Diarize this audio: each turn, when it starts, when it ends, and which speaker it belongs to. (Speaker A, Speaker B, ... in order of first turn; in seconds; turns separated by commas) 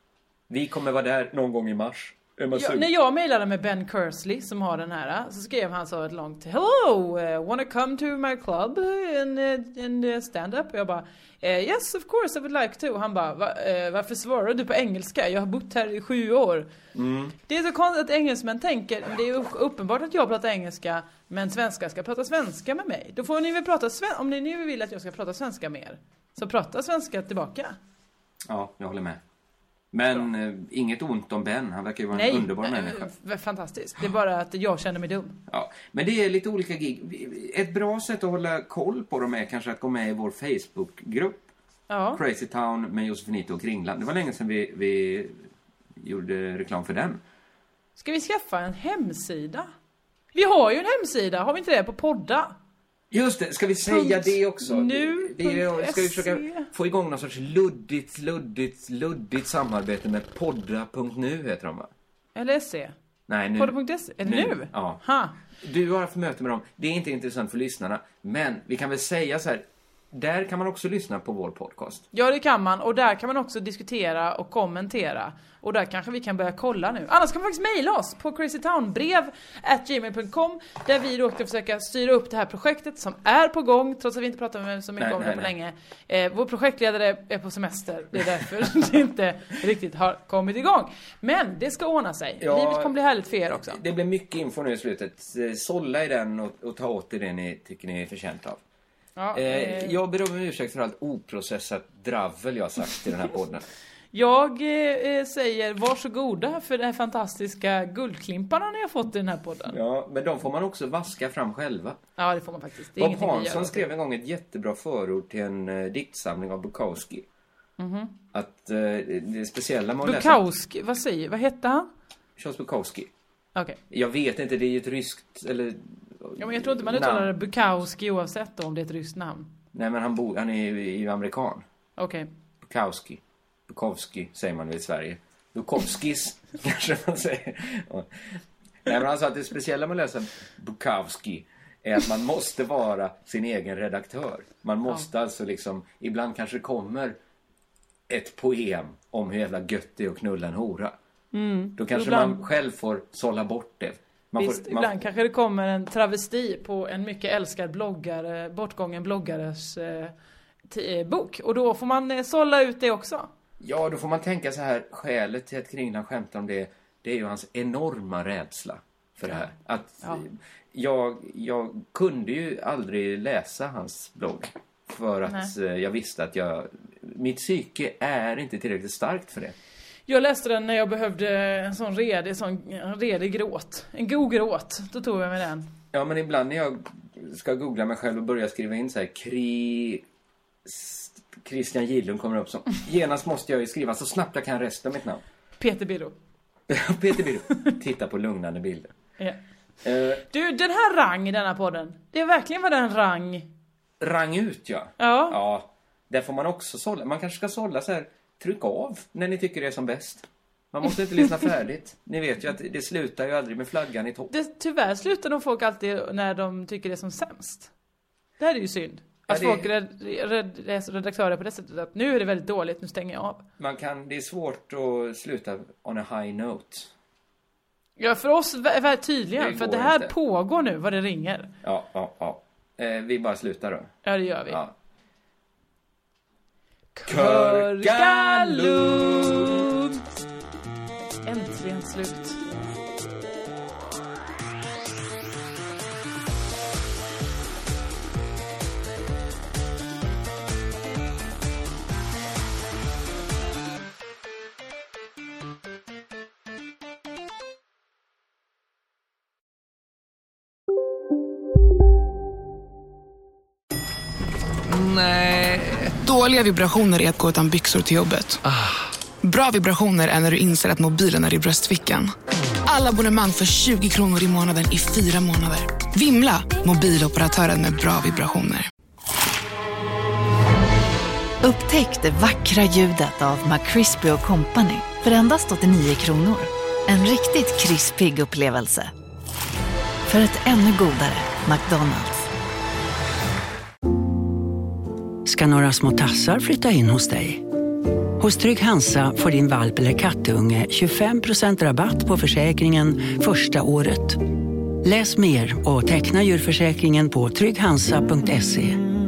Speaker A: 0.5-2.9, Speaker B: 2.5-16.7, Speaker A: 16.9-17.3, Speaker B: 17.5-27.8, Speaker A: 28.4-29.2, Speaker A: 29.9-33.1, Speaker B: 32.1-35.4, Speaker A: 35.5-41.5, Speaker B: 41.9-42.2, Speaker A: 42.1-45.5, Speaker A: 46.0-47.2, Speaker B: 48.0-49.7, Speaker B: 50.3-52.5, Speaker A: 53.1-61.9, Speaker B: 53.9-56.7, Speaker B: 62.4-62.9, Speaker A: 63.3-65.0, Speaker B: 63.5-65.3, Speaker A: 65.6-72.0, Speaker B: 72.1-93.8, Speaker A: 85.0-85.5, Speaker A: 92.4-93.0, Speaker A: 93.5-98.6, Speaker B: 99.2-100.0, Speaker A: 99.3-103.7, Speaker B: 104.1-109.8, Speaker A: 109.7-112.0, Speaker B: 112.2-113.8, Speaker A: 113.0-117.2, Speaker B: 117.8-118.2, Speaker A: 118.3-120.4, Speaker B: 120.0-121.9, Speaker A: 122.4-123.1, Speaker A: 123.9-127.3, Speaker B: 126.4-129.5, Speaker A: 129.7-131.6, Speaker B: 132.0-132.3, Speaker A: 132.6-147.2, Speaker A: 148.1-150.9, Speaker B: 151.3-152.4, Speaker A: 151.8-155.0, Speaker B: 154.4-160.1, Speaker B: 160.7-163.3, Speaker A: 163.6-179.6, Speaker B: 175.2-175.5, Speaker B: 180.1-185.7, Speaker A: 185.9-190.0, Speaker A: 190.6-195.2, Speaker B: 195.6-196.1, Speaker A: 196.7-198.9, Speaker A: 199.8-200.2, Speaker B: 200.3-203.5, Speaker A: 204.0-214.3, Speaker B: 205.0-205.4, Speaker B: 214.3-217.7, Speaker B: 218.4-223.4, Speaker A: 219.3-219.7, Speaker A: 223.6-226.9, Speaker B: 228.0-231.5, Speaker A: 229.3-230.1, Speaker A: 231.6-234.7, Speaker B: 234.0-234.6, Speaker B: 236.9-239.9, Speaker A: 237.1-239.7, Speaker B: 241.2-242.4, Speaker A: 264.7-265.9, Speaker C: 266.0-268.4, Speaker C: 269.2-272.1, Speaker C: 272.6-278.7, Speaker D: 281.4-288.9, Speaker D: 290.1-292.2, Speaker E: 295.2-297.4, Speaker E: 298.2-304.2, Speaker E: 304.8-308.8